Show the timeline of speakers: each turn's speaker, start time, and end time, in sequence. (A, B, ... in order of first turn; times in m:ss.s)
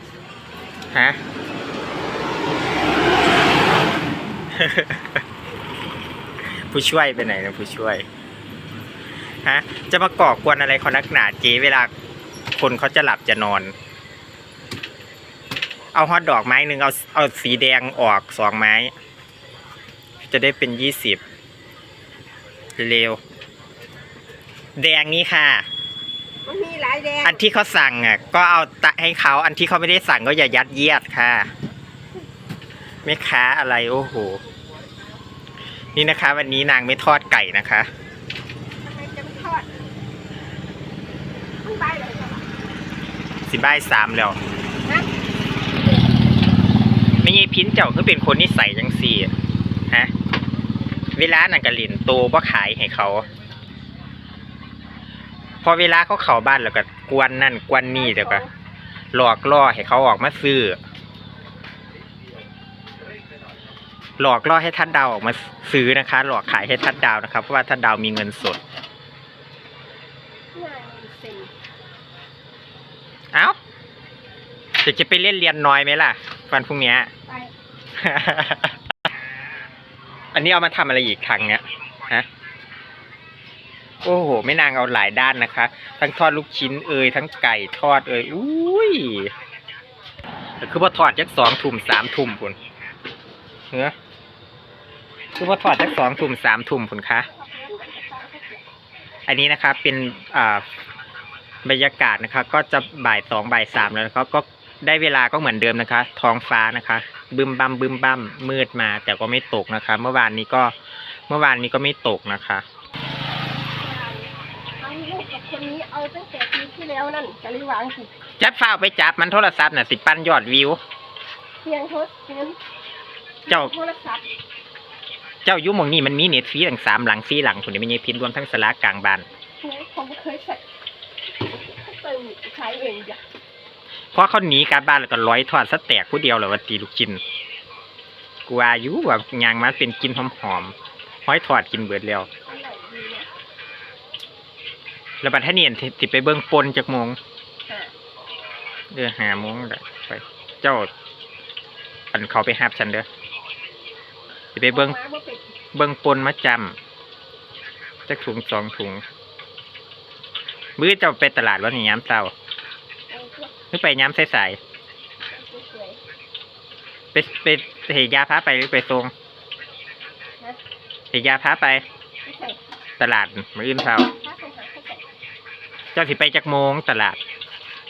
0:00.9-0:01.2 A
0:04.5-0:05.2 A
0:06.5-0:08.0 A
0:09.4-0:11.9 A
0:12.6-0:13.7 A
0:15.9-0:18.9 A
0:20.3-0:21.2 A
0:22.8-0:23.2 A
0:24.8-0:25.6 A
0:26.4-0:27.4 B
0:27.2-0:31.5 A
0:33.0-0:34.4 A
0:35.9-0:37.9 A
0:38.8-0:39.7 B
0:41.6-0:42.4 B
0:43.5-0:44.4 A
0:47.2-0:49.3 A
0:51.1-0:53.2 A
0:55.6-0:58.4 A
0:57.9-0:58.5 B
0:59.1-1:00.8 A
1:04.2-1:08.6 A
1:10.5-1:11.5 B
1:14.8-1:17.1 A
1:18.0-1:18.8 A
1:20.3-1:22.3 A
1:24.0-1:29.3 A
1:30.6-1:32.6 A
1:35.4-1:37.3 A
1:37.3-1:38.6 B
1:39.2-1:40.6 A
1:41.6-1:50.7 A
1:51.3-1:52.6 A
1:53.8-1:58.1 B
1:58.4-2:00.8 A
2:01.6-2:02.6 B
2:03.4-2:04.2 B
2:05.4-2:09.2 A
2:09.6-2:10.6 B
2:11.5-2:13.2 B
2:14.1-2:17.2 A
2:18.4-2:20.7 A
2:21.2-2:22.3 A
2:22.4-2:23.3 B
2:25.2-2:27.2 A
2:27.7-2:27.9 B
2:28.9-2:30.9 A
2:32.1-2:33.1 A
2:34.5-2:35.0 A
2:34.7-2:35.5 B
2:35.7-2:36.8 A
2:38.1-2:39.0 A
2:40.8-2:42.3 A
2:43.1-2:43.5 B
2:43.7-2:44.6 A
2:45.3-2:46.0 B
2:47.1-2:49.1 A
2:51.1-2:51.8 A
2:52.2-2:52.6 B
2:53.0-2:54.1 A
2:54.1-2:55.1 B
2:55.9-2:57.2 A